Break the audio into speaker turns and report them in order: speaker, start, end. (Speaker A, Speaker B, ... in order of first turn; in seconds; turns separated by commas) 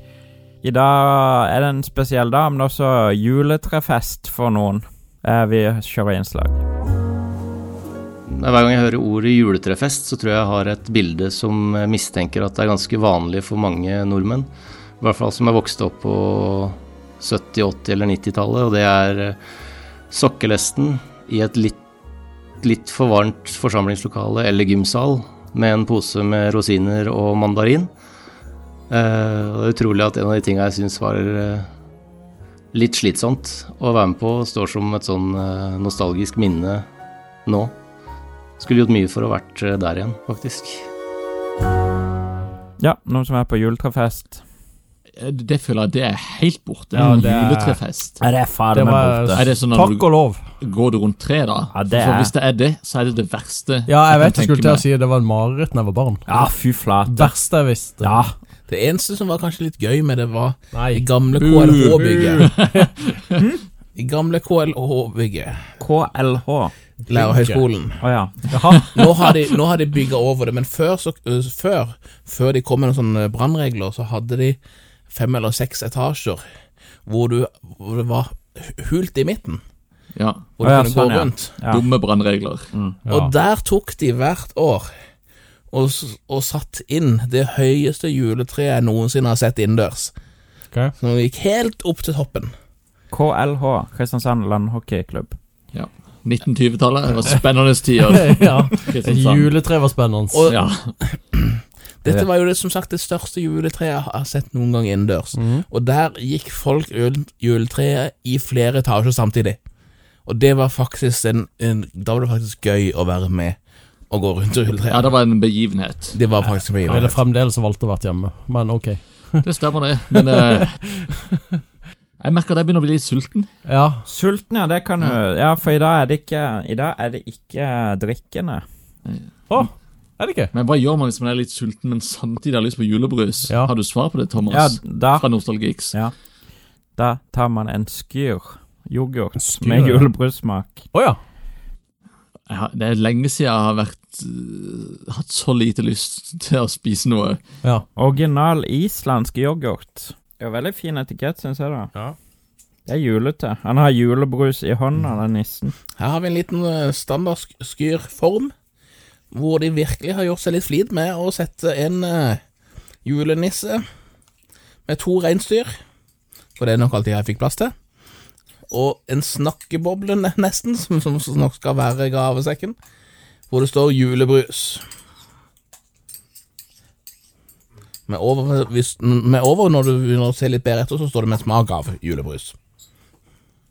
Speaker A: 0.6-6.6, Speaker B: 8.3-19.4, Speaker B: 20.1-21.8, Speaker B: 22.6-27.9, Speaker B: 28.9-31.7, Speaker B: 32.7-36.9, Speaker B: 37.5-37.7, Speaker B: 38.6-40.9, Speaker A: 42.8-44.4, Speaker C: 45.2-48.2, Speaker D: 46.9-47.8, Speaker A: 48.2-49.5, Speaker D: 48.7-50.4, Speaker C: 49.3-54.9, Speaker A: 51.7-52.3, Speaker D: 53.9-56.5, Speaker A: 56.3-57.3, Speaker D: 57.0-58.2, Speaker A: 58.0-58.3, Speaker E: 58.7-62.5, Speaker D: 60.7-61.1, Speaker C: 61.3-63.1, Speaker D: 61.8-62.9, Speaker A: 63.4-63.6, Speaker E: 63.9-65.6, Speaker A: 65.8-66.7, Speaker D: 67.0-67.6, Speaker E: 67.1-68.0, Speaker A: 68.0-68.8, Speaker D: 68.5-68.8, Speaker C: 68.7-69.2, Speaker E: 68.9-74.6, Speaker E: 75.1-76.4, Speaker E: 77.0-79.6, Speaker C: 80.2-80.5, Speaker E: 80.6-81.5, Speaker A: 80.6-81.8, Speaker C: 81.7-82.7, Speaker D: 83.0-83.3, Speaker E: 83.1-84.9, Speaker E: 85.7-90.1, Speaker E: 91.0-92.5, Speaker A: 93.1-95.4, Speaker C: 95.7-99.6, Speaker D: 98.0-100.5, Speaker E: 100.3-109.6, Speaker C: 100.5-100.9, Speaker D: 105.3-105.6, Speaker E: 110.2-113.6, Speaker E: 114.1-115.1, Speaker C: 114.9-116.2, Speaker E: 116.1-117.2, Speaker D: 116.8-119.4, Speaker C: 119.4-120.8, Speaker D: 120.5-120.9, Speaker C: 122.2-123.5, Speaker D: 123.7-124.1, Speaker A: 124.0-128.6, Speaker C: 129.0-129.7, Speaker D: 129.5-130.5, Speaker C: 130.5-135.9, Speaker D: 133.5-133.7, Speaker A: 134.5-135.3, Speaker A: 136.9-140.8, Speaker D: 139.4-140.1, Speaker D: 140.9-141.2, Speaker C: 142.5-147.4, Speaker A: 147.9-151.9, Speaker A: 152.8-155.7, Speaker E: 156.0-158.5, Speaker E: 159.3-162.4, Speaker E: 163.0-163.8, Speaker E: 164.8-165.7, Speaker E: 166.6-167.7, Speaker E: 168.7-172.8, Speaker E: 173.5-174.8, Speaker E: 178.1-182.5